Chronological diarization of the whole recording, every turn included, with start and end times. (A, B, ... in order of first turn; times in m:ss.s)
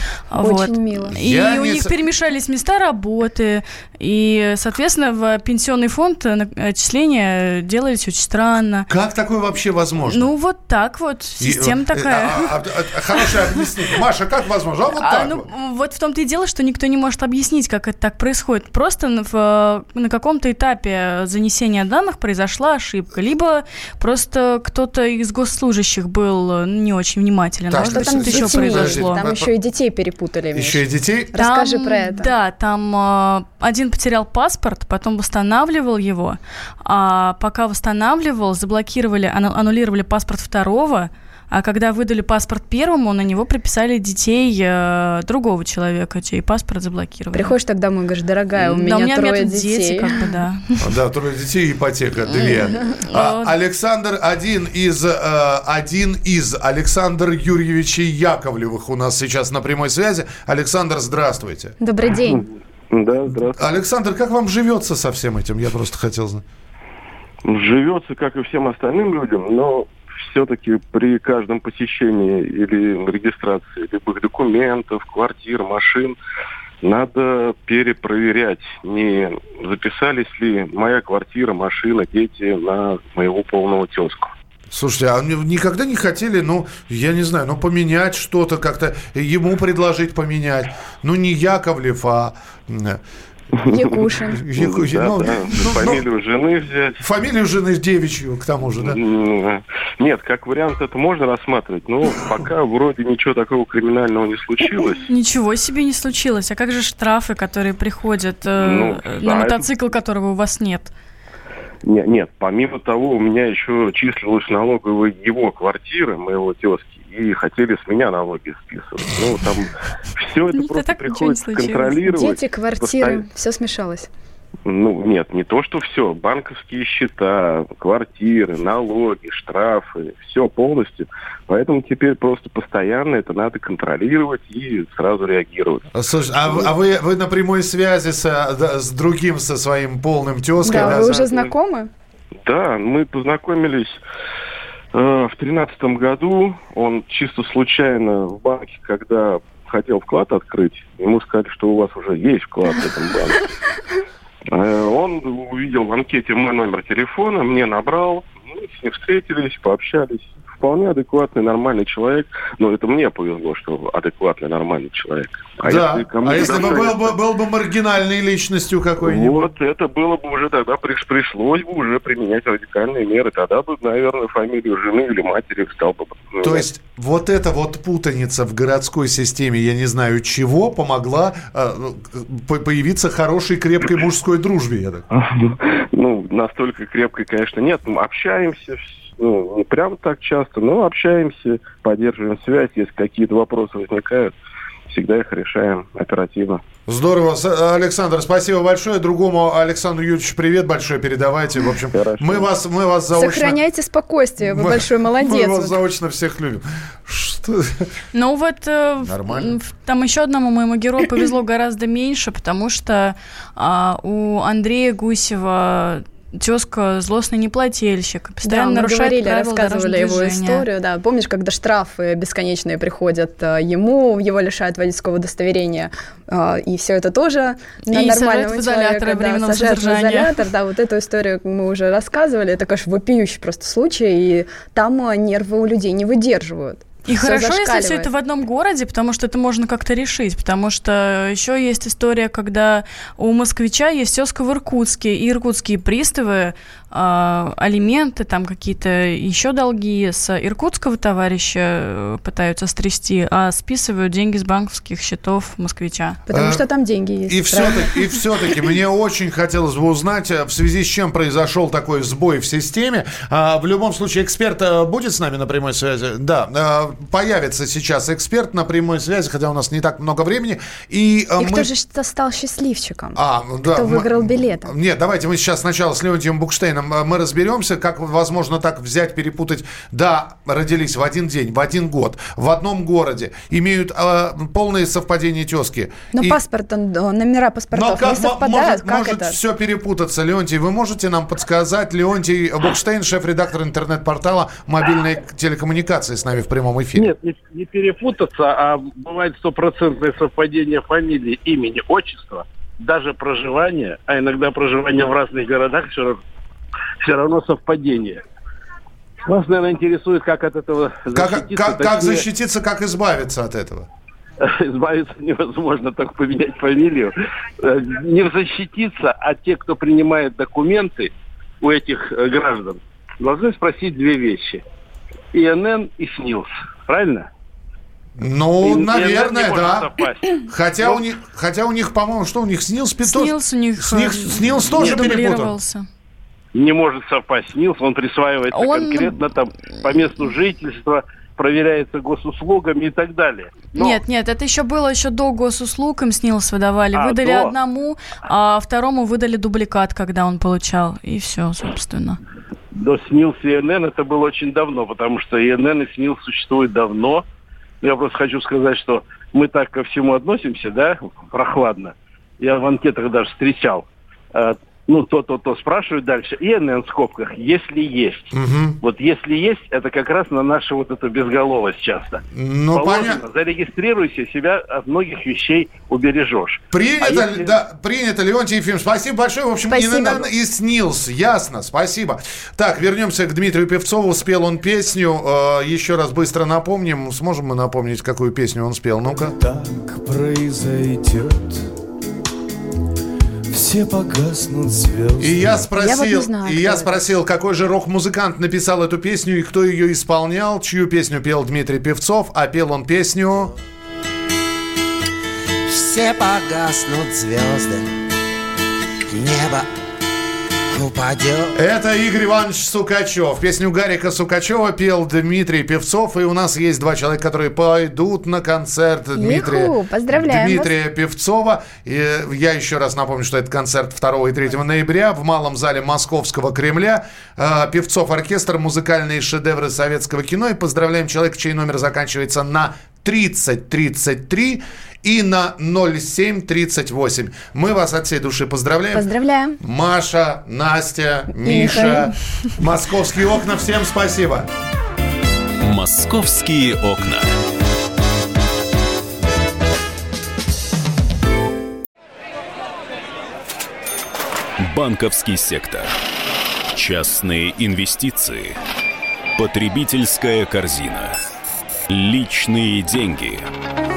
0:00.3-0:08.9 A
0:00.4-0:01.1 B
0:01.2-0:01.9 C
0:08.9-0:10.3 C
0:10.1-0:12.5 A
0:11.4-0:15.5 C
0:15.0-0:29.2 A
0:27.7-0:29.5 C
0:27.9-0:32.3 B
0:30.5-0:31.3 C
0:31.4-0:47.6 A
0:47.3-0:50.1 B
0:48.6-0:50.9 A
0:50.8-1:01.7 C
0:52.3-0:53.5 A
1:01.8-1:02.5 B
1:02.9-1:03.7 D
1:03.6-1:06.4 C
1:07.4-1:16.2 D
1:16.8-1:24.3 D
1:24.7-1:33.0 C
1:33.7-1:34.4 B
1:34.4-1:36.0 C
1:34.6-1:37.0 D
1:37.0-1:39.0 C
1:38.8-1:45.0 D
1:45.1-1:50.9 A
1:48.6-1:49.7 D
1:51.8-2:03.2 D
2:00.5-2:02.0 A
2:02.1-2:04.1 B
2:04.6-2:15.9 D
2:15.9-2:21.2 C
2:20.6-2:21.9 B
2:20.7-2:21.5 D
2:22.4-2:24.0 D
2:24.9-2:33.4 D
2:34.5-2:47.1 D
2:45.6-2:49.5 C
2:49.0-2:56.6 D
2:56.4-3:05.0 C
3:05.1-3:14.3 D
3:14.9-3:16.6 D
3:16.9-3:23.6 C
3:21.9-3:22.5 D
3:23.1-3:25.8 B
3:24.4-3:27.9 C
3:28.1-3:40.6 A
3:29.0-3:29.5 C
3:38.4-3:58.1 B
3:47.9-3:50.4 A
3:57.1-4:16.2 A
4:16.3-4:17.9 B
4:16.3-4:16.6 C
4:17.3-4:31.7 C
4:31.4-4:33.2 B
4:33.1-4:46.4 C
4:33.7-4:34.7 B
4:46.1-4:49.4 B
4:47.7-4:57.1 C
4:57.0-5:06.2 E
5:07.0-5:08.2 E
5:09.2-5:12.2 E
5:11.1-5:13.9 C
5:14.4-5:24.6 E
5:25.3-5:27.3 E
5:28.2-5:29.9 C
5:28.6-5:31.0 E
5:30.4-5:35.5 C
5:33.0-5:35.8 A
5:34.7-5:35.1 E
5:36.5-5:44.0 E
5:38.5-5:39.2 A
5:43.7-5:52.2 A
5:46.9-5:47.5 E
5:52.7-5:57.2 E
5:57.8-6:12.2 E
6:08.3-6:08.8 C
6:12.3-6:13.2 C
6:12.7-6:17.5 E
6:16.7-6:29.4 C
6:19.7-6:20.2 B
6:29.2-6:31.7 F
6:33.5-6:35.6 F
6:35.2-6:43.5 C
6:35.8-6:37.0 B
6:45.7-6:47.9 G
6:49.1-6:49.7 G
6:50.7-6:51.6 G
6:51.5-7:19.1 C
6:59.2-7:00.7 B
7:18.9-7:19.6 B
7:19.6-7:24.5 C
7:21.4-7:22.1 B
7:25.6-7:27.3 H
7:34.6-7:35.9 H
7:36.7-7:38.6 H
7:39.4-7:41.1 H
7:41.9-7:43.5 H